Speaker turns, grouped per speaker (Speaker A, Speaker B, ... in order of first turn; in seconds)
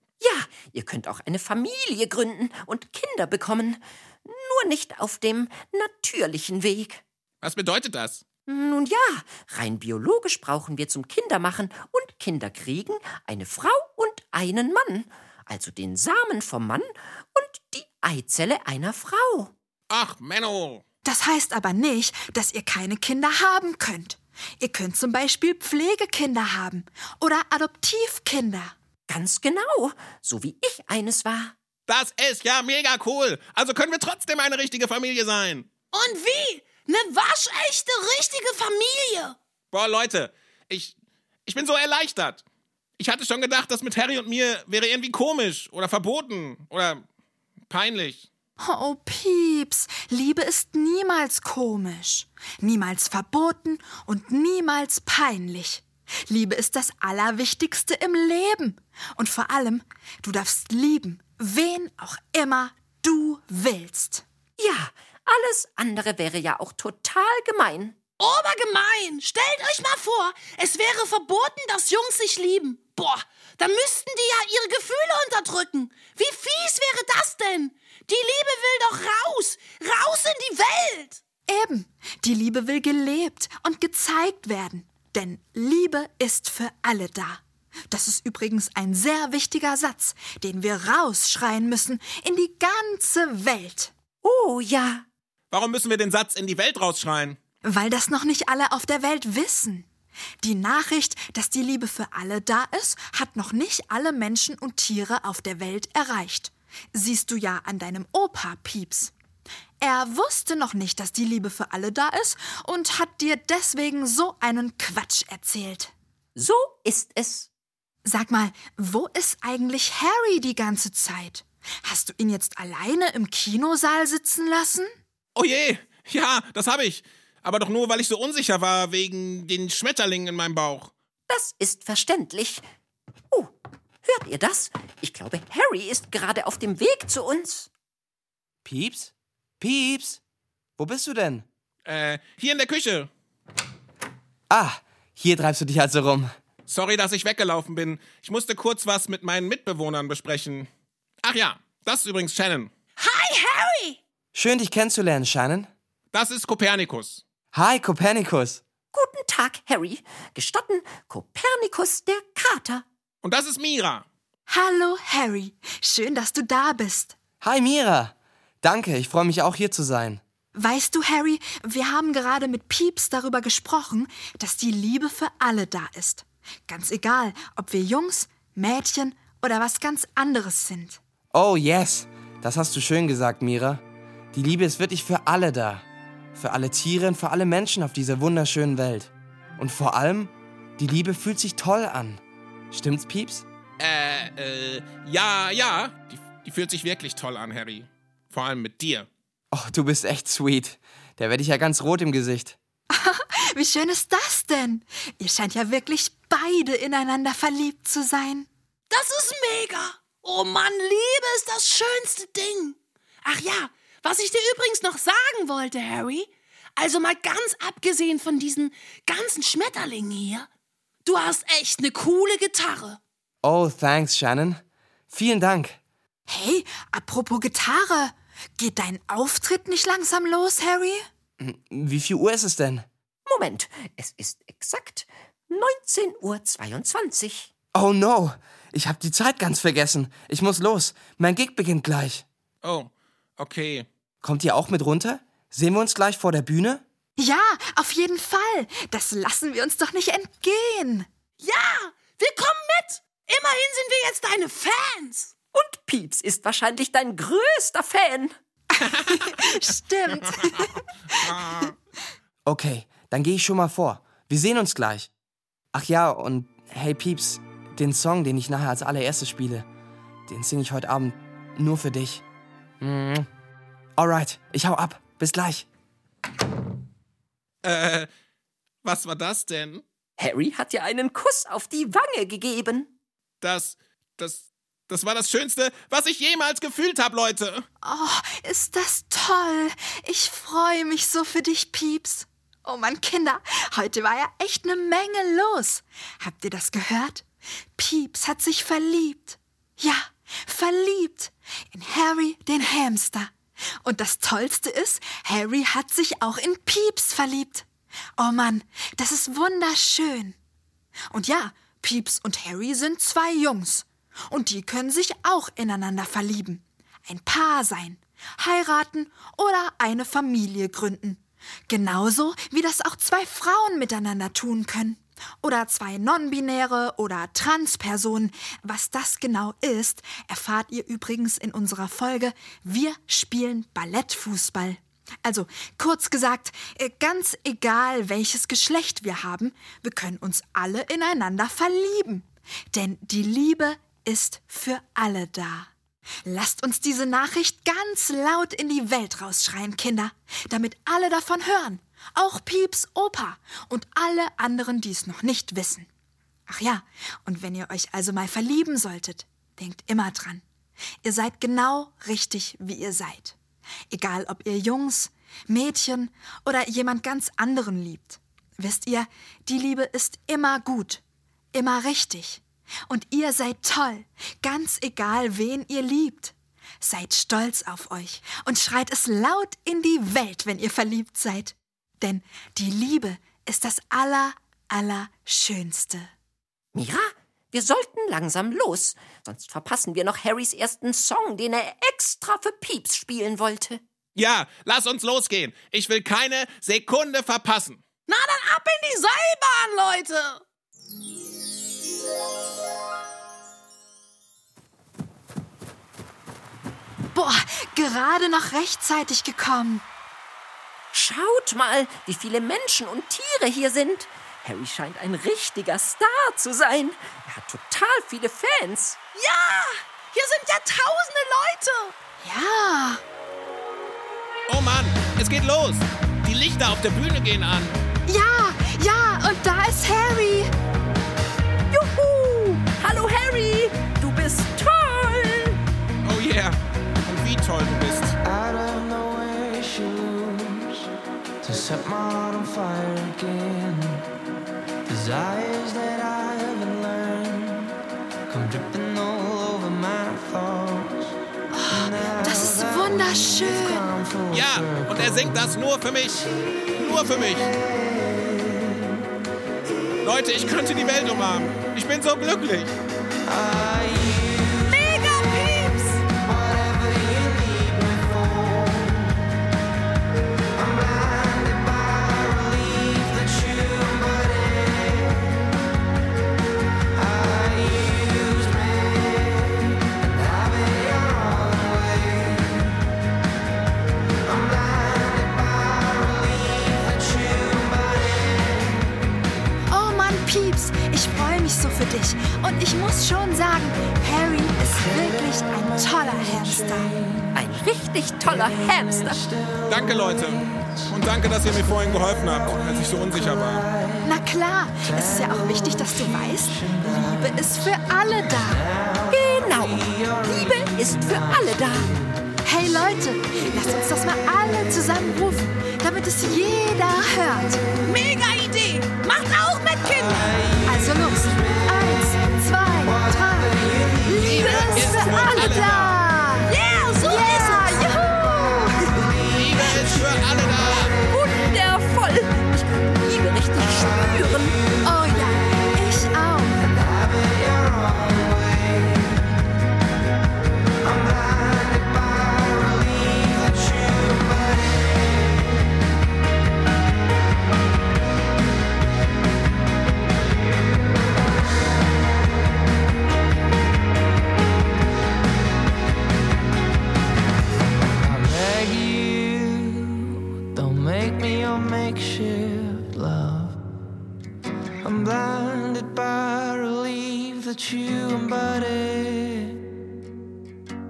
Speaker A: 0.2-7.0, 8.5-19.5, 29.1-31.5, 64.6-68.0, 94.2-95.0, 116.3-117.5, 131.3-132.6, 134.0-137.7, 158.9-162.8, 233.2-237.5, 255.5-258.3, 280.2-282.9, 386.7-393.8, 410.9-419.0, 431.7-435.6, 497.3-499.2, 509.1-511.9, 531.1-534.6
Speaker B: 7.4-8.2, 19.9-20.8, 31.9-35.7, 39.7-40.9, 41.5-42.4, 43.0-47.0, 47.7-48.2, 95.5-97.4, 125.3-130.9, 141.8-143.1, 146.7-150.7, 151.2-152.7, 156.1-157.2, 163.2-164.1, 193.8-199.1, 242.6-243.8, 259.1-259.3, 261.1-261.7, 277.6-278.1, 278.8-279.8, 283.4-287.6, 394.1-397.8, 424.5-427.8, 436.0-438.2, 454.3-457.5, 460.0-462.7, 499.7-503.6, 524.2-525.9, 529.3-530.9
Speaker C: 21.0-28.7, 48.6-64.2, 81.5-93.9, 97.6-99.9, 100.4-109.1, 109.8-115.9, 118.0-124.9, 164.5-167.2, 170.5-181.0, 202.9-208.5, 226.3-231.1, 247.2-251.1, 258.7-261.7, 287.8-307.6, 308.2-310.4, 311.1-345.7, 346.2-355.9, 356.5-360.4, 361.0-363.4, 363.9-371.0, 371.5-386.1, 407.1-409.8, 422.2-423.0, 428.1-430.5, 451.5-453.9, 489.7-496.9, 504.0-508.6, 512.4-517.6, 520.6-529.1, 534.8-536.6
Speaker D: 35.9-39.4, 68.2-81.2, 153.0-154.0, 208.9-220.5, 221.0-223.0, 251.4-255.3, 398.1-400.4, 419.1-421.9, 464.7-466.0, 517.8-520.4, 524.3-525.5, 526.5-528.0
Speaker E: 138.6-140.2, 140.8-141.4, 144.5-146.3, 154.3-155.7, 157.5-158.6, 167.4-170.2, 181.3-183.8, 184.3-185.8, 186.3-193.4, 199.5-202.6, 223.4-225.8, 231.4-232.8, 237.7-242.2, 244.2-246.8, 262.4-265.1, 265.7-269.6, 270.3-272.2, 272.8-273.3, 274.0-275.6
Speaker F: 438.2-440.9, 441.4-444.1, 444.9-447.7, 448.3-451.1, 451.8-455.3, 457.5-459.0, 463.2-465.1, 466.1-469.2, 470.5-475.4, 476.9-482.7, 484.2-489.1, 495.9-497.4, 498.3-500.9, 502.6-504.0, 504.9-507.5, 508.6-509.1, 509.9-512.0, 536.6-539.3, 540.8-545.0, 558.0-563.6, 564.8-569.6